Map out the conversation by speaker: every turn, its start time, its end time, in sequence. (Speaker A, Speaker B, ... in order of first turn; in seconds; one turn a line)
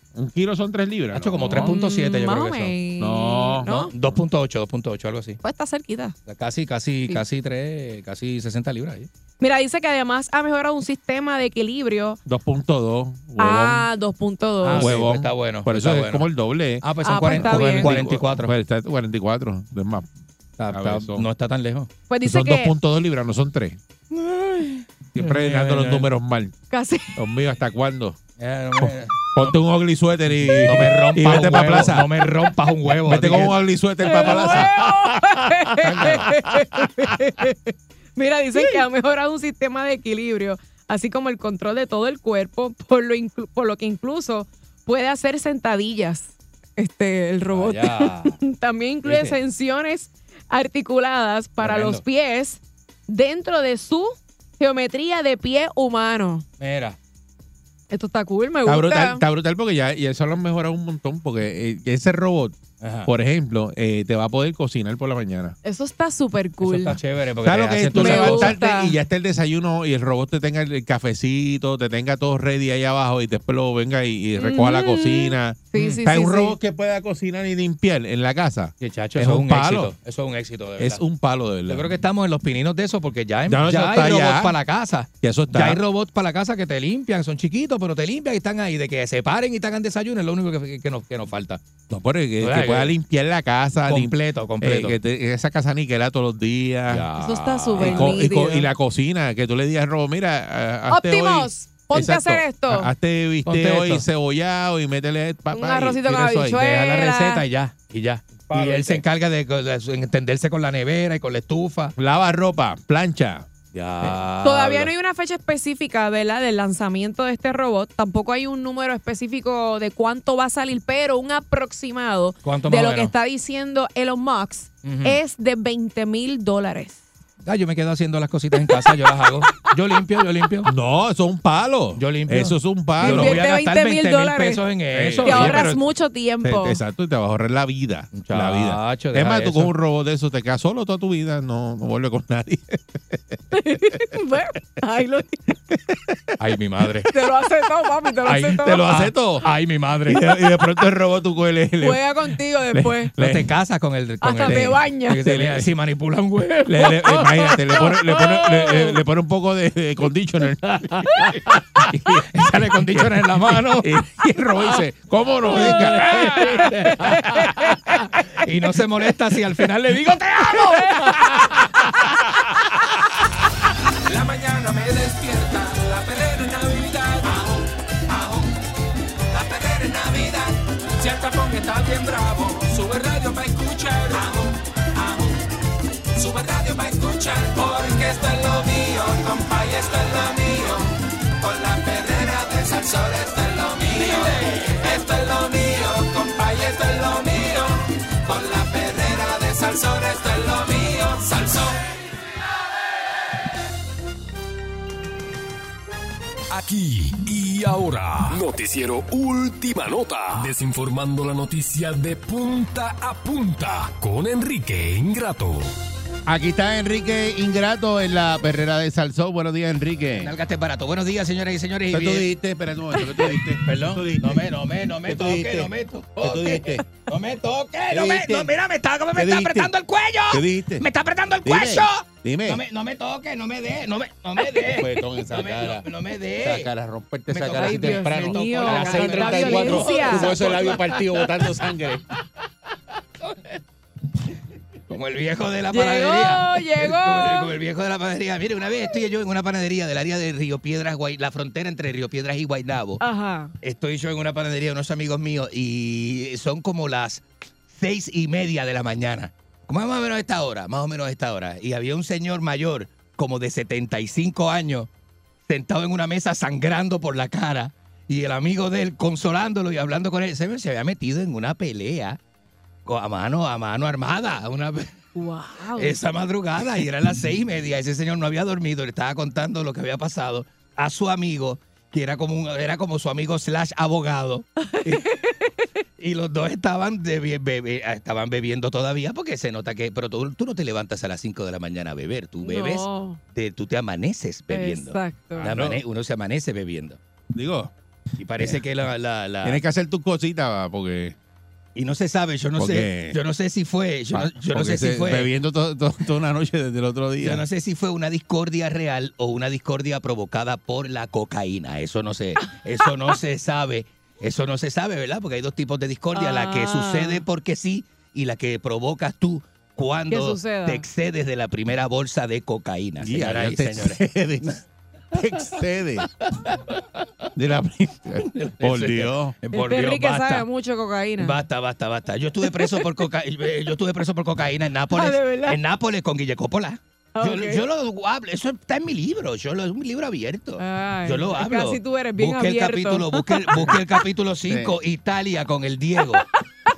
Speaker A: 0.1-1.7
Speaker B: 1.1-2.7
Speaker C: 1.4-3.9
Speaker A: 3.0-3.7
Speaker B: 3.7-5.4
Speaker C: 5.4-6.1
Speaker B: 6.3-9.1
Speaker C: 9.4-12.2
Speaker A: 12.3-13.9
Speaker C: 13.4-14.9
Speaker B: 14.6-16.3
Speaker A: 14.7-20.1
Speaker B: 16.8-18.6
Speaker C: 17.0-18.0
Speaker B: 20.6-21.9
Speaker A: 20.7-21.3
Speaker C: 22.1-22.7
Speaker A: 22.2-23.8
Speaker B: 24.1-26.1
Speaker A: 25.1-26.6
Speaker C: 26.7-27.2
Speaker A: 27.1-28.2
Speaker B: 28.4-29.6
Speaker A: 28.8-32.1
Speaker B: 30.5-33.6
Speaker A: 33.0-34.8
Speaker C: 34.0-56.4
Speaker B: 34.3-34.7
Speaker A: 35.7-36.5
Speaker B: 35.9-36.3
Speaker B: 47.5-48.4
Speaker B: 49.0-49.4
Speaker B: 51.6-52.0
Speaker B: 56.6-57.0
Speaker C: 57.9-59.2
Speaker A: 58.6-62.5
Speaker B: 62.8-63.1
Speaker A: 63.0-65.5
Speaker C: 65.6-67.0
Speaker B: 66.6-68.5
Speaker A: 67.4-79.9
Speaker C: 67.9-69.0
Speaker C: 74.4-76.6
Speaker B: 75.7-76.0
Speaker B: 78.8-81.0
Speaker A: 80.8-81.9
Speaker B: 81.7-91.6
Speaker A: 83.5-84.5
Speaker A: 85.2-85.8
Speaker A: 91.9-97.0
Speaker B: 92.4-92.9
Speaker B: 93.9-95.0
Speaker B: 96.9-98.3
Speaker C: 97.2-98.7
Speaker A: 97.8-106.7
Speaker C: 100.9-102.9
Speaker B: 103.4-104.0
Speaker C: 105.5-107.4
Speaker B: 106.5-111.9
Speaker A: 108.5-109.0
Speaker A: 112.0-113.5
Speaker B: 113.7-114.9
Speaker C: 114.4-127.0
Speaker B: 122.4-123.1
Speaker B: 124.8-125.2
Speaker B: 127.4-130.7
Speaker A: 130.7-133.4
Speaker B: 132.0-135.8
Speaker C: 133.0-134.6
Speaker A: 134.9-135.7
Speaker C: 135.2-136.8
Speaker A: 136.4-143.4
Speaker B: 138.1-139.7
Speaker C: 143.5-145.6
Speaker B: 146.4-147.1
Speaker C: 147.1-148.9
Speaker B: 148.2-150.4
Speaker A: 148.4-149.4
Speaker A: 150.1-152.1
Speaker C: 151.8-153.1
Speaker A: 152.7-153.5
Speaker B: 153.2-157.2
Speaker C: 154.2-155.2
Speaker A: 154.4-155.7
Speaker A: 156.7-161.4
Speaker C: 157.1-159.0
Speaker B: 160.7-163.9
Speaker A: 161.9-166.7
Speaker C: 165.5-167.7
Speaker B: 165.5-171.3
Speaker D: 174.1-178.6
Speaker D: 179.3-185.5
Speaker D: 186.1-201.8
Speaker E: 206.5-215.7
Speaker A: 216.3-220.3
Speaker B: 220.2-222.3
Speaker A: 221.9-224.5
Speaker C: 223.0-223.4
Speaker B: 223.6-236.7
Speaker A: 225.0-226.8
Speaker A: 227.9-228.5
Speaker A: 229.1-229.7
Speaker A: 230.3-230.8
Speaker A: 231.4-232.6
Speaker A: 234.6-235.9
Speaker A: 236.4-242.1
Speaker B: 237.3-241.0
Speaker C: 237.4-240.7
Speaker B: 244.9-253.0
Speaker C: 245.7-247.6
Speaker C: 253.0-253.5
Speaker B: 253.6-264.9
Speaker B: 265.4-272.2
Speaker B: 272.9-275.1
Speaker C: 275.1-276.0
Speaker B: 275.8-285.0
Speaker C: 284.7-285.5
Speaker B: 286.0-297.0
Speaker C: 292.4-293.2
Speaker C: 294.5-295.5
Speaker A: 295.4-295.8
Speaker A: 297.3-297.7
Speaker B: 298.2-299.6
Speaker A: 299.4-301.1
Speaker B: 301.7-305.3
Speaker A: 302.6-303.2
Speaker A: 304.1-307.4
Speaker B: 307.2-324.6
Speaker C: 316.1-317.2
Speaker C: 320.1-320.8
Speaker A: 323.0-324.6
Speaker A: 325.1-326.1
Speaker B: 326.3-326.8
Speaker A: 327.4-329.4
Speaker B: 328.2-330.4
Speaker C: 329.5-331.4
Speaker B: 331.2-346.3
Speaker C: 332.4-333.0
Speaker C: 334.9-335.6
Speaker C: 337.1-337.6
Speaker C: 340.6-344.1
Speaker A: 344.5-344.7